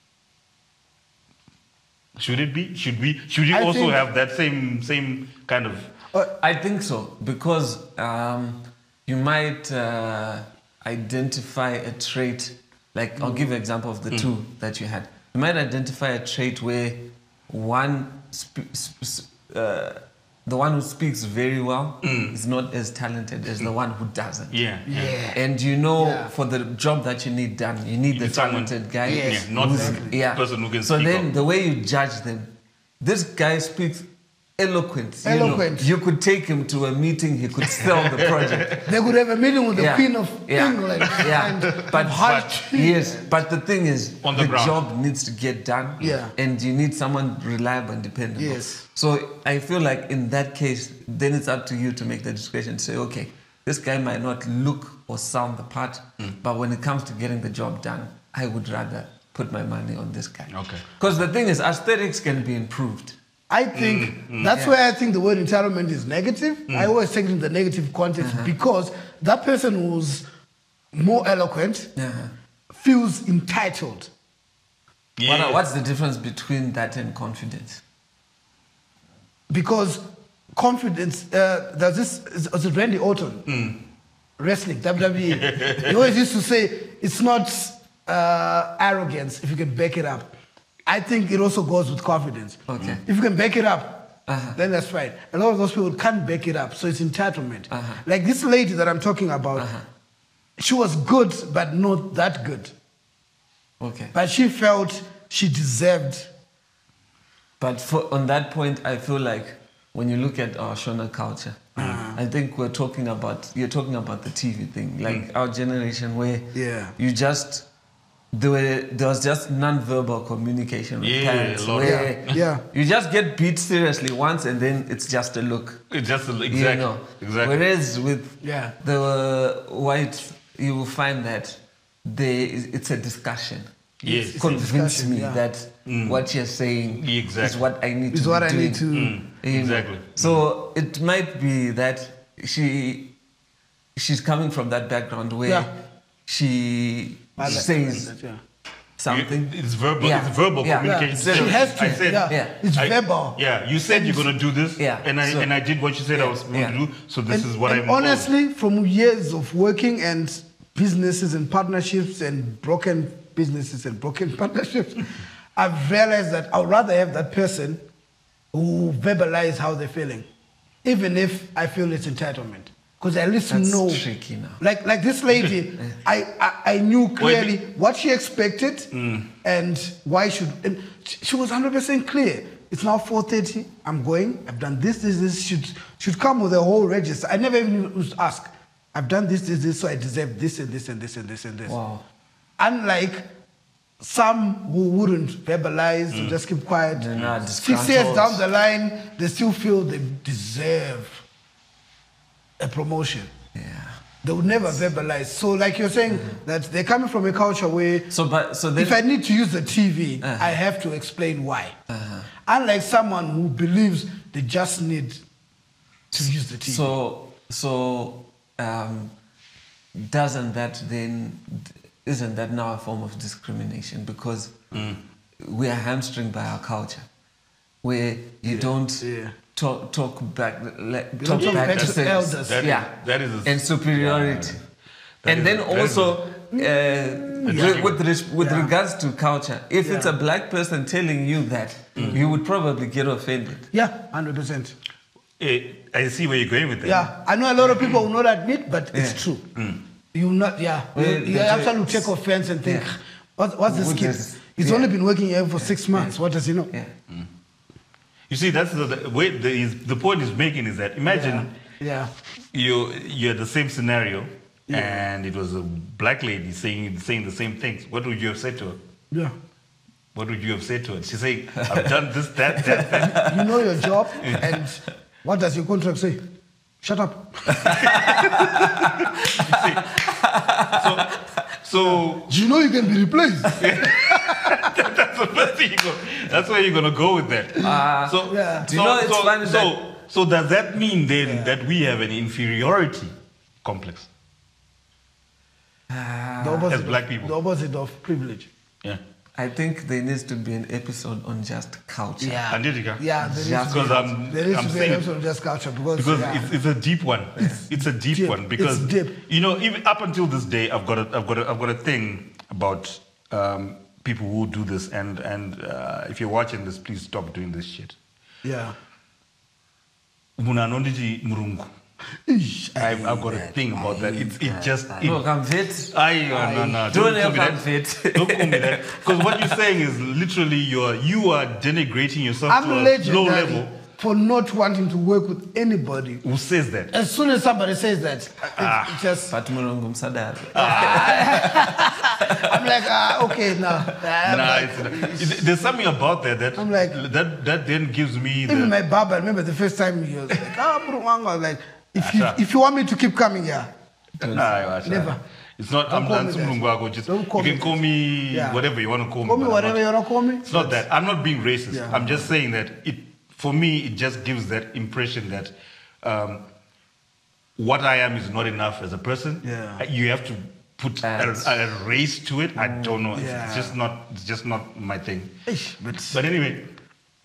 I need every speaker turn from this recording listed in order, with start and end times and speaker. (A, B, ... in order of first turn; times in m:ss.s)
0:02.2-0:05.9 A
0:03.5-0:04.0 B
0:06.4-0:24.6 C
0:13.2-0:13.5 B
0:22.0-0:22.4 A
0:24.5-0:25.2 A
0:24.9-0:25.4 B
0:25.3-0:34.1 C
0:26.0-0:26.3 B
0:28.1-0:31.3 A
0:29.0-0:30.2 B
0:34.6-0:38.9 C
0:35.2-0:35.9 B
0:37.9-0:38.8 A
0:38.8-0:43.4 B
0:39.7-1:03.2 C
0:41.0-0:42.6 A
0:44.2-0:44.8 A
0:46.0-0:46.3 B
0:48.4-0:48.8 B
1:00.5-1:00.8 A
1:03.5-1:10.3 B
1:03.7-1:04.6 A
1:08.2-1:08.5 C
1:10.9-1:11.9 B
1:12.0-1:12.3 C
1:12.7-1:14.1 B
1:15.2-1:15.6 A
1:15.2-1:17.8 C
1:19.5-1:20.0 B
1:20.6-1:23.5 B
1:23.5-1:23.8 A
1:24.4-1:30.3 B
1:25.3-1:26.0 A
1:30.9-1:39.7 B
1:32.7-1:33.0 C
1:34.3-1:34.6 C
1:37.7-1:38.0 C
1:39.6-1:39.9 C
1:40.6-1:42.7 B
1:43.8-1:44.1 C
1:44.1-1:46.3 B
1:47.6-1:57.7 C
1:51.8-1:52.0 A
1:51.8-1:52.2 B
1:56.5-1:57.0 B
1:58.3-2:05.8 C
2:01.0-2:02.4 A
2:01.8-2:02.6 B
2:05.9-2:07.6 A
2:06.5-2:13.7 C
2:08.4-2:08.8 B
2:14.0-2:14.6 A
2:14.0-2:15.4 B
2:14.4-2:23.1 C
2:15.9-2:16.2 A
2:17.0-2:17.6 A
2:18.1-2:19.2 B
2:18.9-2:20.4 A
2:24.0-2:25.7 C
2:26.3-2:28.1 C
2:27.4-2:28.4 B
2:29.0-2:32.6 C
2:29.1-2:38.3 A
2:30.8-2:34.3 B
2:34.8-2:35.5 C
2:36.1-2:36.8 C
2:37.3-2:47.8 B
2:48.5-2:50.3 B
2:50.8-2:54.0 B
2:53.5-2:54.6 C
2:54.6-2:58.9 B
2:57.2-2:57.6 A
2:58.9-2:59.3 A
2:59.4-3:11.8 B
3:11.7-3:12.0 C
3:12.6-3:13.2 B
3:14.0-3:21.2 B
3:16.1-3:16.4 A
3:16.9-3:18.4 C
3:22.6-3:23.3 B
3:23.6-3:24.0 C
3:24.2-3:28.1 B
3:26.1-3:26.4 C
3:28.1-3:29.0 C
3:28.8-3:31.8 B
3:30.2-3:30.6 C
3:31.9-3:32.3 C
3:32.4-3:35.2 B
3:36.1-3:36.9 B
3:36.1-3:39.1 C
3:40.0-3:44.5 C
3:44.7-3:45.0 A
3:45.4-3:47.1 C
3:47.8-3:52.9 C
3:48.5-3:49.4 B
3:51.2-3:52.7 B
3:51.4-3:54.6 A
3:53.4-3:54.6 C
3:55.2-3:56.2 A
3:55.3-4:03.7 C
3:57.3-3:57.9 B
3:57.5-3:58.0 A
3:58.4-3:58.7 B
3:59.8-4:00.2 B
4:02.0-4:02.2 A
4:02.0-4:02.2 B
4:03.7-4:04.8 B
4:05.4-4:07.1 A
4:06.8-4:09.4 B
4:08.9-4:09.2 C
4:10.1-4:16.7 B
4:11.0-4:12.1 C
4:12.6-4:12.9 C
4:13.7-4:14.9 C
4:15.6-4:16.2 C
4:18.3-4:21.5 A
4:21.1-4:22.1 B
4:22.5-4:28.8 A
4:24.7-4:25.1 B
4:30.2-4:33.4 A
4:31.6-4:31.9 C
4:32.5-4:33.5 C
4:32.6-4:36.2 B
4:34.2-4:34.5 A
4:36.8-4:38.1 B
4:37.5-4:41.2 C
4:37.7-4:40.0 A
4:40.7-4:42.3 A
4:41.8-4:44.7 B
4:43.6-4:53.1 A
4:47.6-4:49.8 C
4:48.3-4:48.7 B
4:51.2-4:51.5 B
4:53.6-4:54.1 A
4:55.9-4:56.7 C
4:56.4-4:58.5 B
4:56.7-4:57.3 A
4:59.4-5:02.5 C
5:02.2-5:06.5 B
5:02.5-5:05.1 A
5:03.2-5:04.0 C
5:06.0-5:18.0 A
5:08.1-5:09.1 B
5:18.4-5:18.8 B
5:20.4-5:21.7 A
5:22.3-5:24.9 B
5:22.8-5:25.2 A
5:25.0-5:29.5 C
5:25.9-5:33.7 A
5:32.5-5:36.2 B
5:36.2-5:36.9 A
5:36.9-5:39.4 B
5:38.6-5:39.2 A
5:39.3-5:42.8 C
5:40.5-5:41.4 A
5:40.6-5:45.5 B
5:44.2-5:48.7 A
5:46.6-5:47.0 B
5:48.5-5:53.7 B
5:52.0-5:52.4 A
5:54.2-5:54.5 C
5:54.3-5:59.8 A
5:54.3-5:55.2 B
5:55.9-5:58.6 B
5:59.2-6:00.8 B
6:00.4-6:06.4 A
6:01.7-6:02.2 B
6:07.6-6:15.3 A
6:09.4-6:09.8 B
6:11.0-6:11.7 C
6:12.6-6:13.0 C
6:13.1-6:13.8 B
6:15.5-6:16.2 B
6:16.1-6:16.7 A